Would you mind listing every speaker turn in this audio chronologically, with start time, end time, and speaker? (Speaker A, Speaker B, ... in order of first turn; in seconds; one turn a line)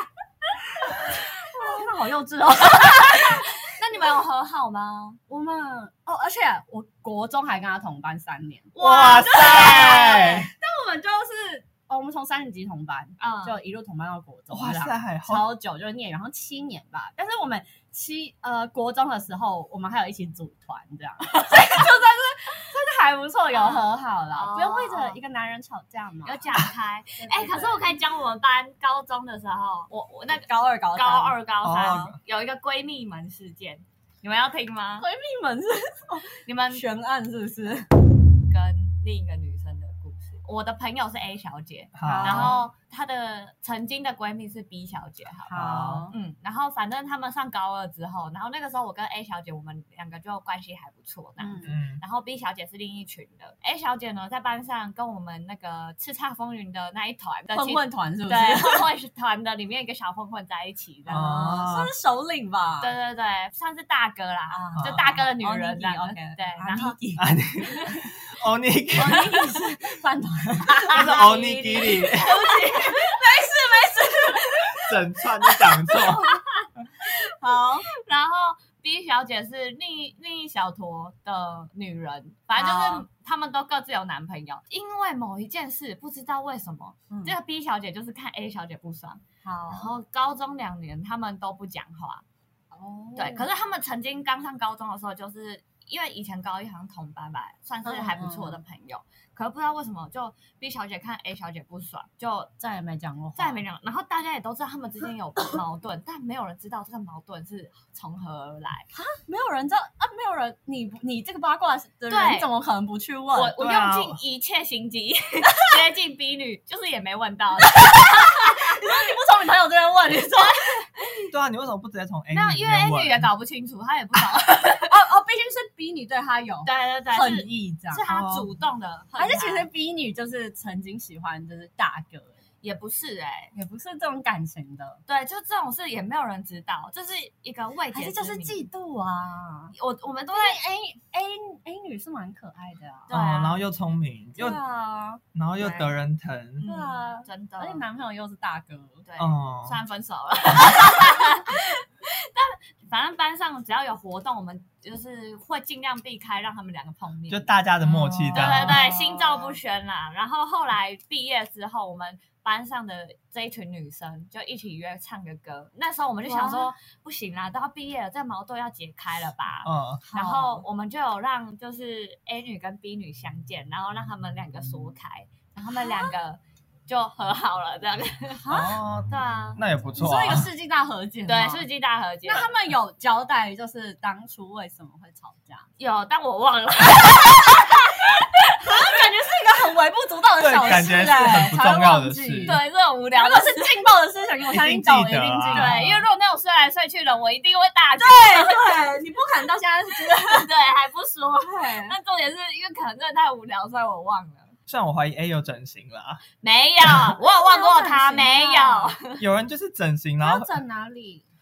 Speaker A: 0.8-3.5
Speaker B: 1.6-1.9
Speaker B: 2.7-5.2
Speaker A: 5.3-26.5
Speaker B: 8.8-10.3
Speaker C: 8.8-10.5
Speaker B: 13.2-13.6
Speaker C: 14.5-15.5
Speaker B: 23.5-25.2
Speaker B: 26.2-35.1
Speaker A: 27.2-27.9
Speaker A: 30.3-32.1
Speaker C: 31.6-32.2
Speaker A: 35.0-37.9
Speaker B: 36.4-36.8
Speaker B: 38.5-61.5
Speaker C: 42.0-42.5
Speaker A: 42.0-42.7
Speaker A: 45.5-46.1
Speaker C: 45.5-46.1
Speaker A: 51.4-51.7
Speaker C: 51.7-52.0
Speaker A: 57.5-58.9
Speaker C: 61.1-61.9
Speaker A: 61.1-62.9
Speaker B: 62.8-67.0
Speaker A: 64.5-67.3
Speaker C: 64.8-65.2
Speaker C: 67.2-69.3
Speaker A: 69.0-76.1
Speaker B: 69.1-69.5
Speaker B: 70.9-73.2
Speaker C: 70.9-72.5
Speaker C: 74.8-76.4
Speaker A: 77.0-77.9
Speaker B: 77.9-92.2
Speaker A: 82.5-83.1
Speaker A: 89.4-89.9
Speaker A: 92.7-93.5
Speaker B: 93.2-102.5
Speaker A: 97.8-98.6
Speaker A: 102.6-103.6
Speaker B: 103.4-108.9
Speaker A: 108.9-113.6
Speaker B: 112.1-112.5
Speaker B: 113.3-118.8
Speaker C: 113.6-114.2
Speaker A: 117.7-121.1
Speaker B: 120.4-121.1
Speaker C: 121.3-123.3
Speaker B: 122.3-125.0
Speaker A: 124.9-128.1
Speaker B: 126.7-129.7
Speaker C: 128.1-128.4
Speaker A: 129.2-132.4
Speaker B: 132.6-133.5
Speaker A: 133.5-135.0
Speaker B: 135.1-138.7
Speaker A: 137.9-139.7
Speaker B: 139.7-140.6
Speaker A: 140.3-143.2
Speaker B: 143.1-143.6
Speaker C: 143.1-144.6
Speaker A: 144.4-145.2
Speaker C: 145.3-146.7
Speaker B: 145.6-145.9
Speaker B: 146.6-147.8
Speaker A: 146.6-149.1
Speaker B: 149.1-157.5
Speaker C: 149.2-149.8
Speaker C: 157.3-158.8
Speaker A: 157.9-159.6
Speaker B: 158.3-178.5
Speaker A: 166.2-166.7
Speaker C: 169.7-170.0
Speaker A: 170.0-170.7
Speaker A: 175.8-176.1
Speaker A: 178.4-178.8
Speaker C: 178.5-180.5
Speaker B: 179.1-179.6
Speaker A: 180.0-181.7
Speaker B: 181.3-182.5
Speaker A: 182.2-185.7
Speaker B: 185.8-188.5
Speaker A: 188.6-192.6
Speaker C: 190.4-192.6
Speaker B: 192.4-193.8
Speaker A: 193.1-196.1
Speaker C: 194.5-195.8
Speaker B: 195.5-198.9
Speaker A: 198.0-200.5
Speaker B: 200.0-204.5
Speaker A: 201.4-201.9
Speaker C: 204.7-206.2
Speaker B: 206.4-209.2
Speaker A: 207.2-209.0
Speaker C: 209.2-210.5
Speaker A: 210.2-211.3